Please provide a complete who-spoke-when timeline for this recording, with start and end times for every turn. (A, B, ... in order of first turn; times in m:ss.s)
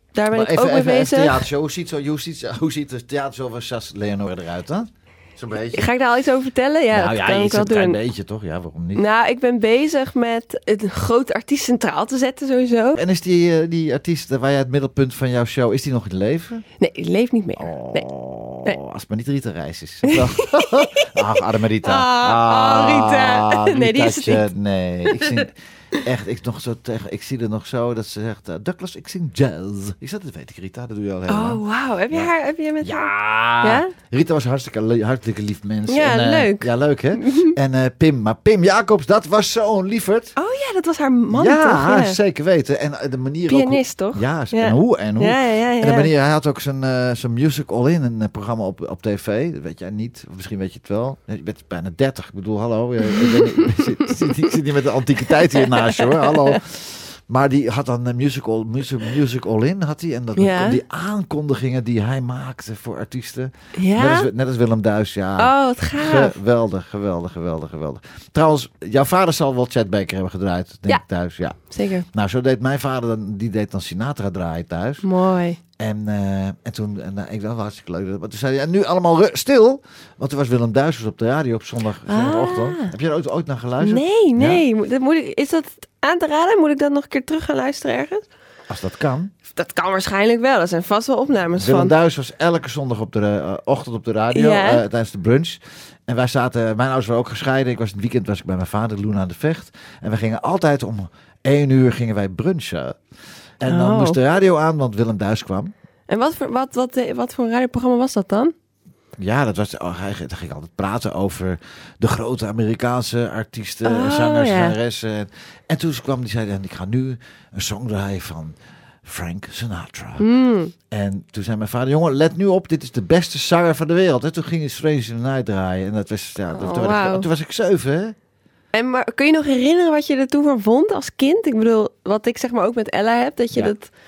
0:00.2-0:01.4 A
0:00.3-0:05.9 B
0:05.7-0:08.0 A
0:06.9-0:09.0 B
0:09.0-0:13.0 A
0:13.0-0:16.6 B
0:16.8-0:18.1 A
0:17.6-0:32.3 B
0:20.1-0:21.2 A
0:21.8-0:24.5 A
0:25.1-0:25.5 A
0:31.3-0:33.1 A
0:32.8-0:40.3 B
0:33.6-0:33.9 A
0:35.9-0:37.6 A
0:40.4-0:42.2 A
0:41.3-1:15.0 B
0:43.5-0:46.1 A
0:53.2-0:54.1 A
0:55.6-0:56.6 A
1:00.4-1:00.8 A
1:03.8-1:04.3 A
1:05.4-1:06.4 A
1:11.7-1:12.1 A
1:15.0-1:15.6 A
1:15.8-1:24.6 B
1:22.1-1:22.9 A
1:23.8-1:28.2 A
1:28.7-1:29.3 B
1:29.6-1:31.9 A
1:31.6-1:43.0 B
1:34.3-1:34.8 A
1:43.6-1:45.7 B
1:43.6-1:44.2 A
1:46.1-1:48.5 A
1:49.2-2:00.3 B
1:53.8-1:54.8 A
2:00.2-2:00.7 A
2:00.9-2:08.2 B
2:06.5-2:07.3 A
2:08.7-2:13.9 A